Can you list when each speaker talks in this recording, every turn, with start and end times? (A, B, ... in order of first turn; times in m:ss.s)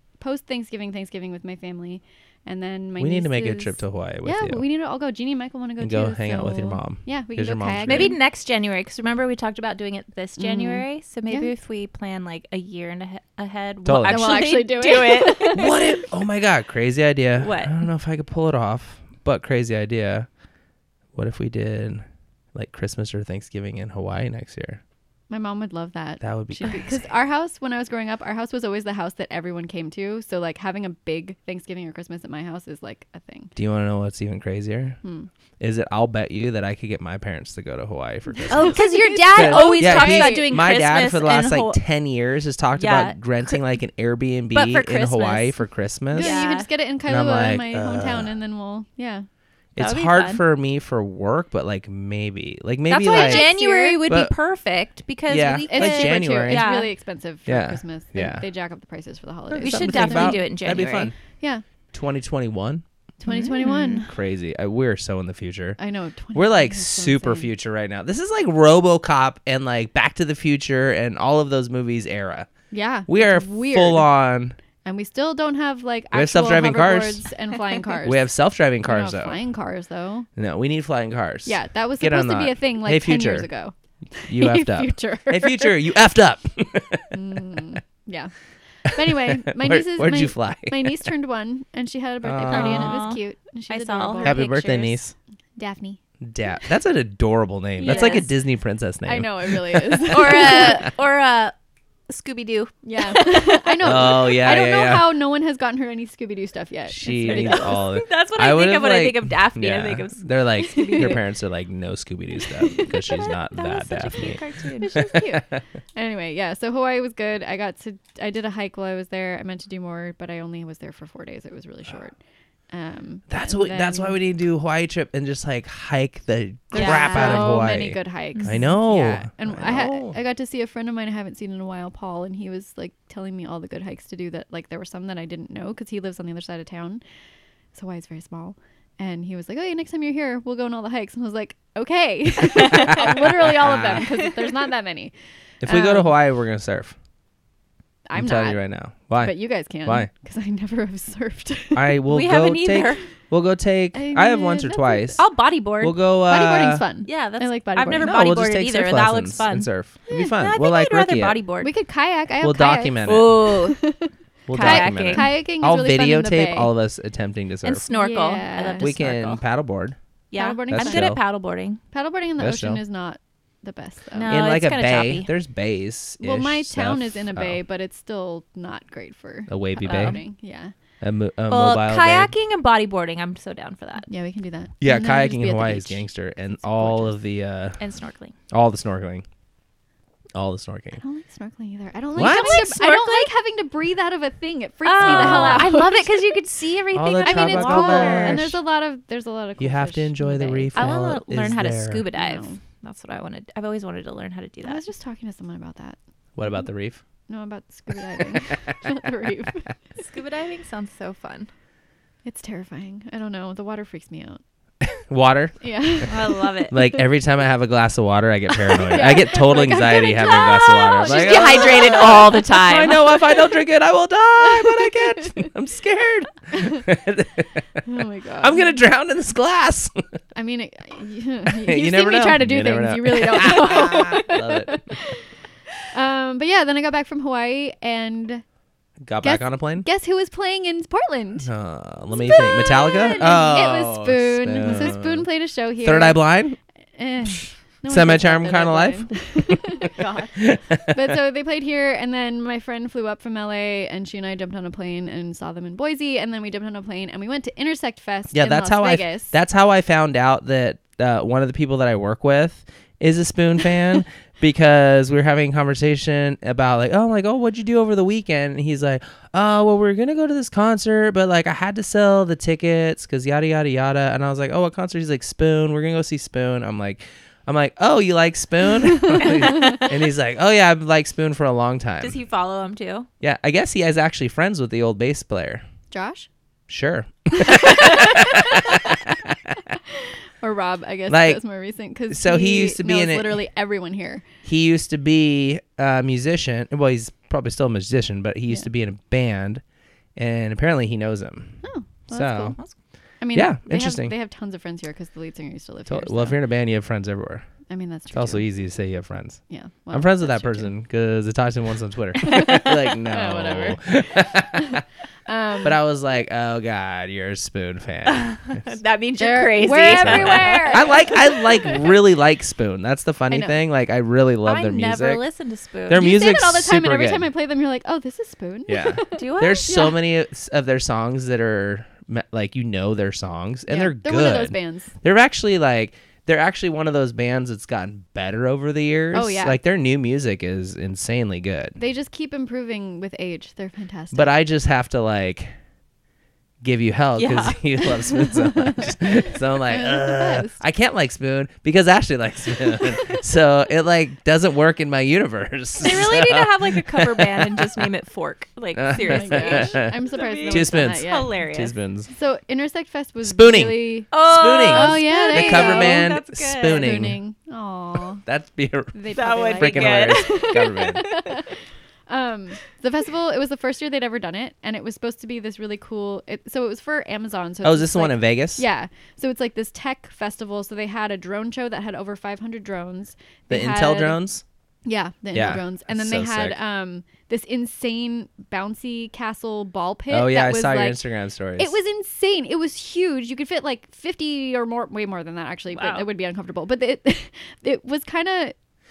0:00.2-0:08.2 A
0:03.0-0:04.6 B
0:05.8-0:08.2 B
0:07.8-0:15.9 C
0:10.4-0:11.5 A
0:13.8-0:14.5 B
0:14.0-0:15.8 A
0:15.5-0:20.3 B
0:17.4-0:17.8 C
0:21.2-0:24.8 B
0:25.3-0:33.5 A
0:26.2-0:27.0 B
0:33.6-0:35.0 B
0:35.0-0:35.3 A
0:35.6-0:46.4 B
0:38.5-0:40.5 A
0:38.5-0:41.8 C
0:42.8-0:43.6 C
0:44.5-0:45.6 C
0:46.1-0:49.3 A
0:46.2-0:46.7 C
0:47.1-0:48.3 B
0:49.8-0:53.5 B
0:49.8-0:50.4 C
0:52.9-0:56.9 C
0:52.9-0:54.0 A
0:54.1-0:54.3 B
0:55.3-0:56.6 B
0:55.7-1:00.5 A
0:57.5-0:58.4 B
0:59.5-1:01.1 B
0:59.6-1:01.1 C
1:01.4-1:01.6 A
1:01.9-1:02.8 B
1:03.2-1:04.1 A
1:03.3-1:04.0 C
1:04.0-1:05.8 B
1:05.8-1:07.5 A
1:06.3-1:12.5 B
1:12.7-1:14.1 A
1:13.1-1:14.6 B
1:14.8-1:18.3 A
1:16.1-1:17.2 B
1:18.0-1:19.4 B
1:18.8-1:20.3 A
1:20.4-1:23.5 B
1:21.5-1:25.8 A
1:24.2-1:27.2 B
1:27.1-1:28.3 A
1:28.8-1:34.4 A
1:28.9-1:31.1 B
1:32.2-1:33.0 B
1:32.5-1:35.0 C
1:34.2-1:35.1 B
1:35.6-1:36.0 A
1:36.2-1:40.9 B
1:37.8-1:38.3 C
1:37.8-1:38.3 A
1:39.0-1:40.8 A
1:40.1-1:41.5 C
1:42.1-1:44.1 C
1:42.8-1:47.8 A
1:43.8-1:45.1 B
1:46.9-1:54.4 B
1:47.2-1:51.2 C
1:50.8-1:51.2 A
1:52.7-1:52.9 A
1:53.1-1:55.1 C
1:54.8-2:02.2 A
1:54.9-1:55.6 B
2:02.7-2:04.2 A
2:03.3-2:10.2 B
2:06.7-2:17.0 A
2:06.7-2:07.6 C
2:17.7-2:25.1 A
2:22.7-2:24.1 B
2:22.8-2:23.1 C
2:25.6-2:27.0 B
2:25.7-2:26.1 A
2:28.1-2:28.6 A
2:28.2-2:30.1 B
2:29.2-2:31.9 A
2:31.8-2:35.2 B
2:32.1-2:33.0 C
2:33.9-2:35.2 A
2:35.2-2:36.0 C
2:35.8-2:36.8 B
2:36.3-2:38.1 A
2:37.0-2:39.7 C
2:38.0-2:41.4 B
2:40.1-2:40.3 A
2:40.2-2:41.7 C
2:41.6-2:46.7 A
2:42.4-2:43.4 B
2:43.0-2:43.8 C
2:44.5-2:47.8 B
2:44.5-2:45.3 C
2:47.6-2:49.4 C
2:47.9-2:48.9 A
2:48.8-2:50.0 B
2:50.3-2:51.8 C
2:50.4-2:51.2 A
2:50.7-2:51.2 B
2:51.9-2:54.4 A
2:52.4-2:52.8 B
2:54.2-2:55.3 C
2:54.3-2:57.6 B
2:56.2-3:00.7 A
2:59.5-3:00.2 B
2:59.8-3:00.2 C
3:01.0-3:02.3 B
3:01.5-3:04.1 C
3:04.1-3:07.1 A
3:04.8-3:07.8 B
3:07.8-3:08.4 C
3:08.5-3:09.2 B
3:10.3-3:11.0 B
3:11.0-3:16.3 A
3:12.2-3:12.7 B
3:12.2-3:13.3 C
3:14.8-3:18.4 C
3:15.0-3:15.7 B
3:16.9-3:18.6 B
3:17.2-3:20.8 A
3:19.6-3:22.1 B
3:20.8-3:24.8 C
3:22.1-3:22.6 A
3:24.6-3:26.0 A
3:26.4-3:27.0 B
3:27.3-3:29.7 A
3:30.0-3:31.5 C
3:32.2-3:34.4 A
3:34.8-3:36.1 B
3:35.6-3:36.8 A
3:36.1-3:36.8 C
3:36.7-3:47.8 B
3:38.7-3:42.4 A
3:41.0-3:43.0 C
3:44.4-3:45.5 A
3:46.6-3:46.8 A
3:47.8-3:48.8 A
3:48.4-3:50.0 B
3:50.3-3:55.2 A
3:51.5-3:55.0 B
3:55.9-3:58.4 A
3:59.0-3:59.9 B
3:59.2-4:01.5 A
4:01.4-4:05.3 B
4:02.1-4:06.3 A
4:02.3-4:03.4 C
4:05.8-4:06.6 B
4:07.0-4:10.3 A
4:07.9-4:09.7 B
4:10.0-4:10.3 C
4:10.4-4:11.2 B
4:10.9-4:19.4 A
4:18.3-4:42.2 B
4:39.1-4:39.8 A
4:39.3-4:39.9 C
4:42.0-4:43.1 C
4:43.2-4:45.6 B
4:45.9-4:46.3 A
4:46.7-4:49.4 B
4:47.4-4:49.0 A
4:49.9-4:54.2 A
4:51.1-4:51.4 B
4:52.1-4:53.4 B
4:54.4-4:59.6 B
5:00.2-5:02.6 B
5:01.6-5:02.6 A
5:03.2-5:06.4 A
5:03.3-5:04.1 B
5:05.9-5:07.5 B
5:07.7-5:08.5 A
5:08.1-5:14.8 B
5:09.5-5:10.7 A
5:12.2-5:15.8 A
5:15.6-5:18.6 B
5:18.1-5:21.0 C
5:19.2-5:21.9 A
5:19.9-5:25.2 B
5:23.3-5:23.6 A
5:24.4-5:26.1 C
5:25.9-5:27.3 B
5:25.9-5:29.9 A
5:28.7-5:41.8 B
5:29.2-5:30.0 C
5:33.7-5:34.9 A
5:39.1-5:39.6 A
5:41.8-5:44.3 A
5:44.1-5:45.5 B
5:46.6-5:57.9 B
5:47.2-5:47.9 C
5:48.5-5:50.6 A
5:55.8-6:01.7 C
5:58.8-5:59.9 B
5:59.0-6:01.4 A
6:00.5-6:02.1 B
6:02.1-6:04.1 A
6:03.2-6:07.2 B
6:04.1-6:06.9 C
6:04.6-6:06.1 A
6:06.8-6:08.2 A
6:08.2-6:09.0 B
6:08.9-6:11.6 A
6:09.1-6:11.3 C
6:09.5-6:11.1 B
6:12.1-6:24.2 A
6:17.6-6:18.6 B
6:23.5-6:24.4 B
6:24.9-6:31.0 A
6:25.3-6:26.6 B
6:30.1-6:31.8 B
6:31.6-6:38.6 A
6:35.7-6:36.1 C